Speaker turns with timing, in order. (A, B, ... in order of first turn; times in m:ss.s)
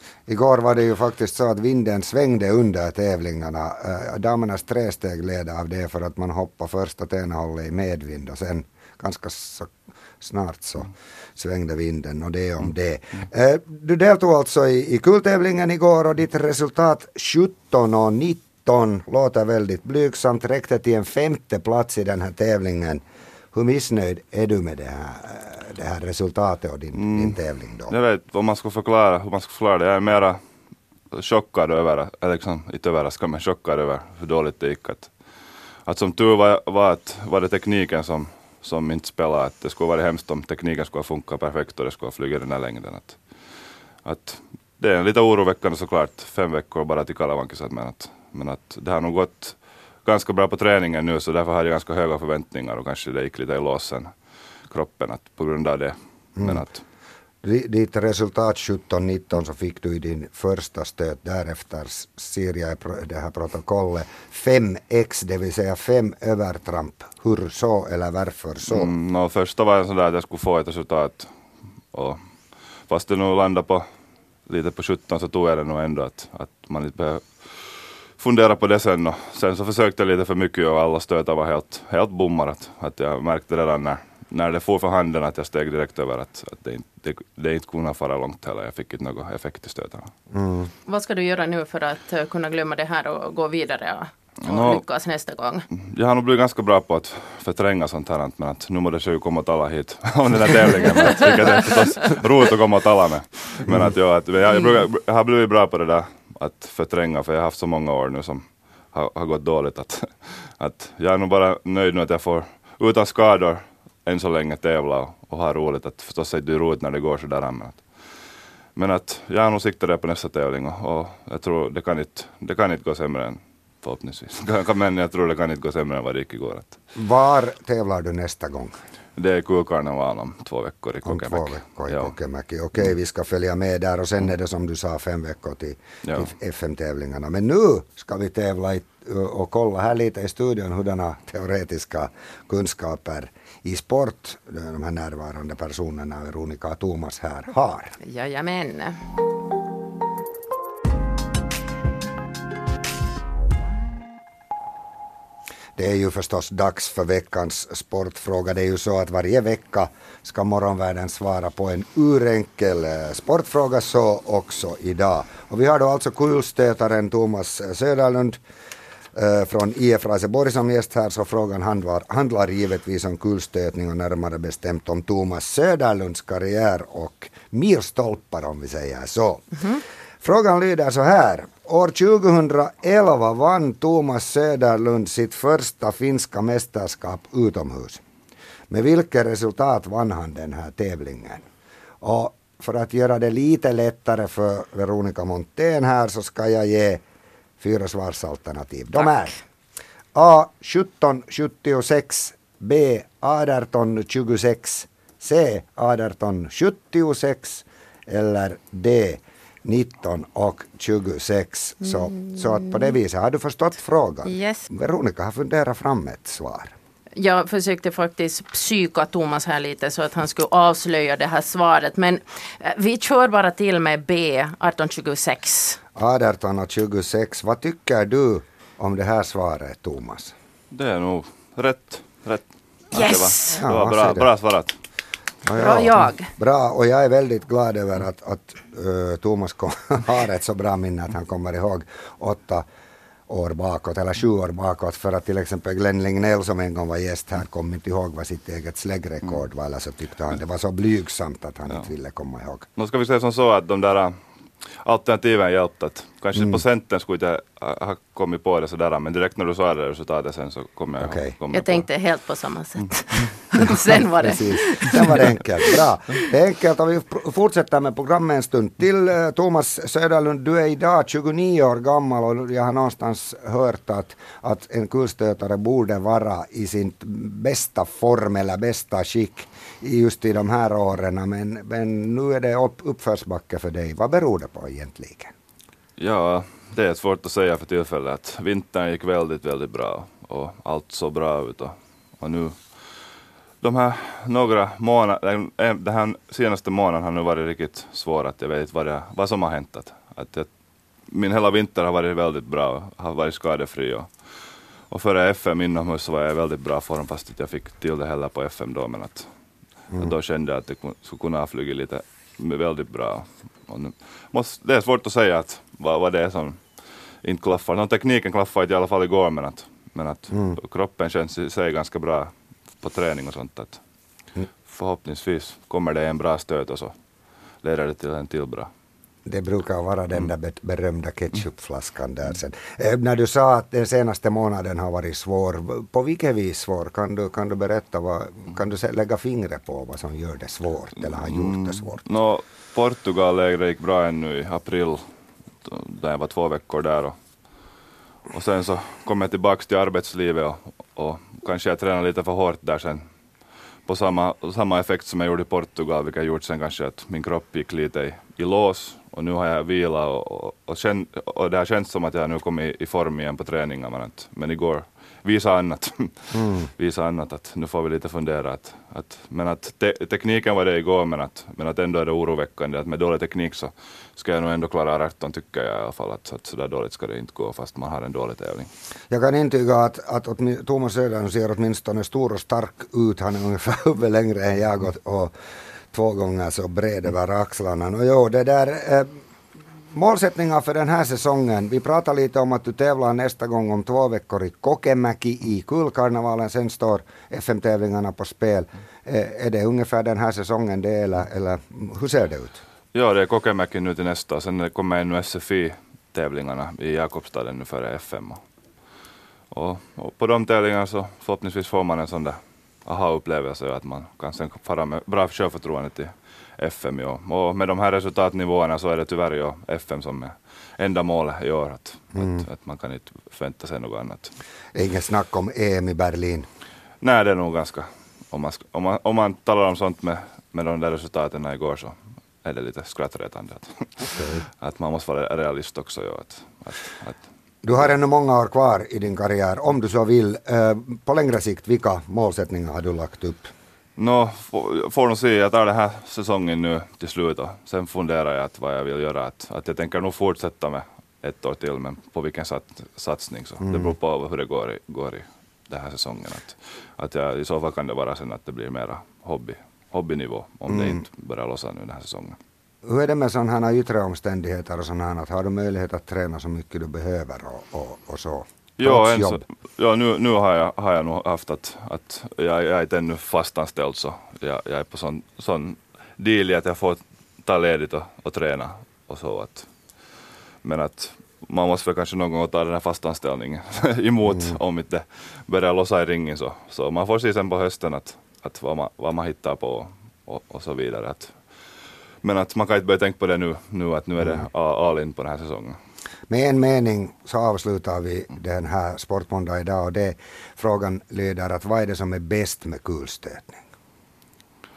0:00.3-0:23.0 A
0:23.5-0:27.9 A
0:26.9-0:30.4 B
0:31.1-0:35.1 B
0:35.9-0:43.2 B
0:44.0-0:54.1 B
0:54.7-0:56.8 B
0:56.4-0:56.7 A
0:57.4-1:08.9 A
1:08.7-1:11.3 B
1:11.9-1:12.2 B
1:12.9-1:13.9 B
1:14.5-1:17.5 B
1:18.2-1:30.1 B
1:30.3-1:30.7 A
1:30.9-1:35.6 C
1:34.4-1:34.8 B
1:35.7-1:57.8 B
1:58.8-2:06.8 B
2:07.0-2:08.8 A
2:09.2-2:12.1 B
2:11.0-2:28.0 A
2:16.0-2:16.3 B
2:28.0-2:29.0 C
2:35.8-2:48.4 A
2:49.2-3:08.0 A
3:08.7-3:11.4 A
3:12.0-3:17.0 A
3:17.6-3:19.4 A
3:20.1-3:36.7 A
3:34.3-3:34.7 C
3:37.2-3:45.8 C
3:46.0-3:50.3 A
3:50.7-3:54.8 B
3:52.9-3:53.6 C
3:53.5-3:54.3 A
3:55.5-4:02.6 A
3:55.6-3:56.3 C
4:03.3-4:12.7 A
4:12.8-4:14.2 B
4:14.8-4:21.9 B
4:16.4-4:16.6 A
4:21.0-4:21.4 A
4:21.5-4:25.2 C
4:24.2-4:45.3 A
4:46.0-4:52.6 B
4:53.6-5:00.5 B
5:01.1-5:04.1 B
5:04.9-5:09.3 B
5:09.9-5:16.6 B
5:17.2-5:23.8 B
5:20.3-5:20.6 A
5:24.7-5:26.9 B
5:27.6-5:28.7 B
5:29.3-5:42.0 A
5:41.0-5:45.0 B
5:45.6-5:47.2 B
5:48.3-5:53.0 B
5:53.9-6:18.7 B
6:06.3-6:06.7 A
6:19.1-6:25.3 A
6:25.9-6:29.2 A
6:29.9-6:42.6 A
6:42.9-6:48.4 B
6:49.5-7:04.3 B
7:02.2-7:02.4 A
7:04.7-7:06.5 A
7:07.0-7:17.2 B
7:14.1-7:14.4 A
7:17.6-7:23.5 A
7:24.0-7:42.4 B
7:33.6-7:33.9 A
7:40.7-7:41.0 A
7:42.8-7:49.4 A
7:48.8-7:59.7 B
8:00.6-8:11.3 B
8:12.2-8:15.8 B
8:16.3-8:23.6 A